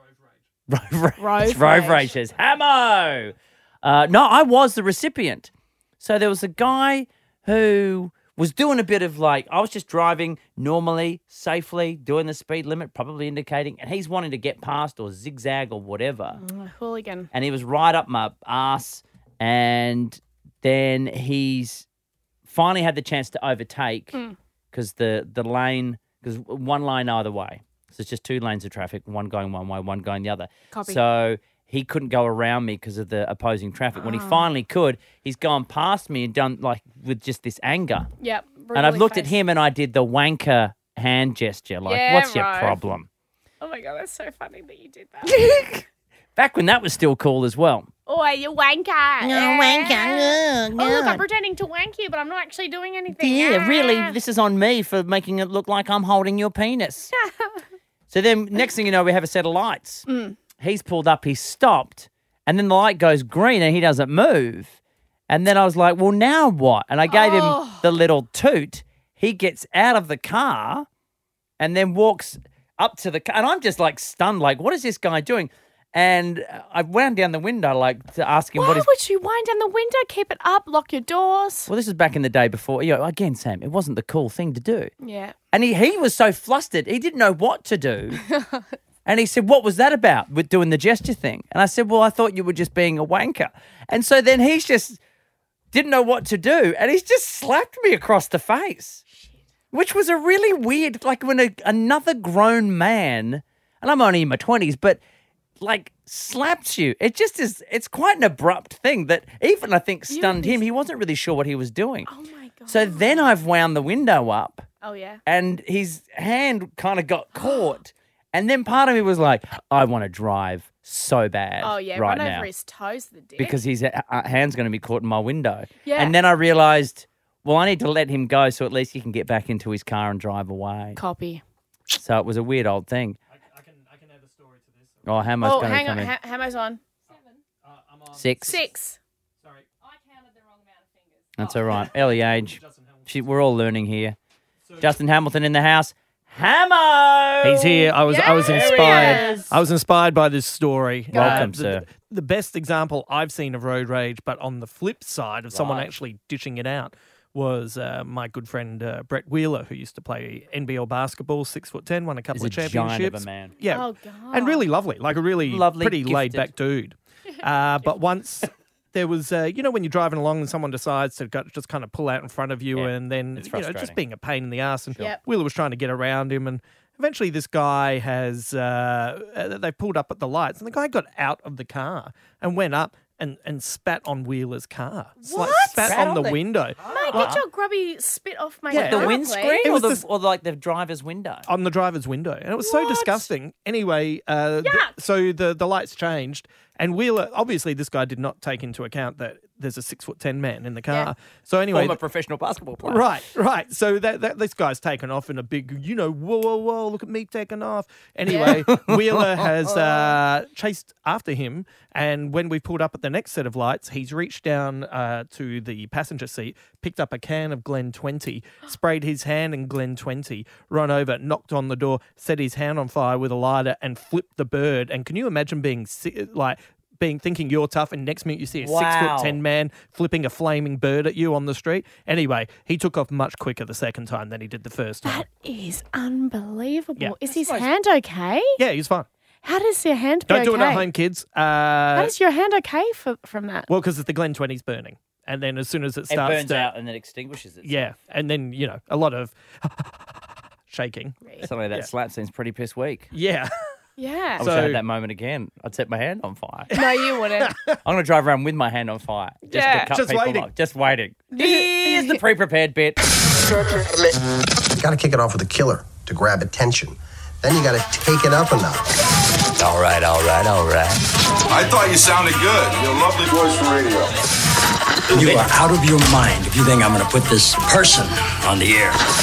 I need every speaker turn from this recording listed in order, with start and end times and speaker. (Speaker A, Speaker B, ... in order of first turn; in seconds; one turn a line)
Speaker A: 0.7-16.4
Speaker B: 1.2-2.1
Speaker B: 16.4-17.3
Speaker A: 17.3-21.9
Speaker A: 22.4-24.2
Speaker A: 24.7-38.1
Speaker B: 30.7-31.0
Speaker B: 34.0-34.5
Speaker B: 38.2-39.4
Speaker A: 38.8-43.1
Speaker B: 41.9-42.8
Speaker B: 43.6-45.4
Speaker A: 45.3-45.9
Speaker A: 46.4-47.9
Speaker B: 48.1-54.2
Speaker A: 49.2-51.2
Speaker A: 53.2-57.1
Speaker B: 57.2-57.5
Speaker A: 58.1-60.1
Speaker B: 60.1-60.4
Speaker A: 60.6-64.8
Speaker A: 65.3-70.9
Speaker B: 67.1-67.8
Speaker A: 71.6-78.9
Speaker B: 78.6-81.7
Speaker A: 81.7-84.9
Speaker B: 85.0-85.3
Speaker A: 85.5-88.2
Speaker B: 88.4-88.6
Speaker A: 89.1-95.0
Speaker A: 95.7-99.0
Speaker A: 99.7-105.0
Speaker A: 105.6-112.1
Speaker B: 110.1-110.6
Speaker B: 112.1-113.3
Speaker A: 112.7-114.7
Speaker B: 114.8-115.2
Speaker A: 115.3-122.5
Speaker B: 121.6-123.6
Speaker A: 123.4-131.0
Speaker B: 125.8-126.2
Speaker B: 131.0-131.4
Speaker A: 131.9-133.2
Speaker C: 133.3-135.3
Speaker A: 135.1-136.1
Speaker B: 135.4-136.8
Speaker C: 137.1-138.6
Speaker A: 138.2-138.6
Speaker B: 138.4-139.0
Speaker C: 139.4-139.7
Speaker A: 141.4-144.2
Speaker C: 141.4-143.1
Speaker C: 144.7-144.9
Speaker A: 144.8-149.5
Speaker C: 147.4-187.4
Speaker B: 148.0-149.3
Speaker B: 151.1-151.5
Speaker A: 151.1-151.9
Speaker A: 155.5-155.9
Speaker A: 162.3-163.6
Speaker B: 163.7-164.7
Speaker A: 165.4-166.5
Speaker A: 172.7-174.0
Speaker B: 185.2-186.0
Speaker A: 185.8-186.4
Speaker B: 186.9-189.7
Speaker A: 187.1-187.4
Speaker C: 188.7-190.0
Speaker A: 188.7-191.5
Speaker C: 191.5-202.0
Speaker B: 192.6-193.3
Speaker B: 194.6-194.9
Speaker A: 201.7-203.1
Speaker C: 202.8-235.3
Speaker B: 208.3-208.6
Speaker A: 208.4-209.5
Speaker A: 228.6-229.4
Speaker B: 235.0-238.6
Speaker A: 237.3-237.7
Speaker C: 238.6-239.1
Speaker B: 239.4-240.9
Speaker C: 240.3-242.1
Speaker B: 241.9-243.7
Speaker C: 243.7-246.7
Speaker A: 246.1-247.8
Speaker C: 247.6-250.1
Speaker C: 250.7-251.9
Speaker A: 251.4-253.1
Speaker C: 253.1-253.5
Speaker B: 254.0-254.4
Speaker C: 254.4-254.8
Speaker A: 254.4-256.7
Speaker B: 256.7-257.6
Speaker C: 257.4-257.8
Speaker A: 257.9-263.0
Speaker B: 259.5-259.9
Speaker C: 259.9-260.5
Speaker B: 261.3-262.2
Speaker D: 264.8-268.9
Speaker E: 271.5-274.1
Speaker F: 275.1-279.0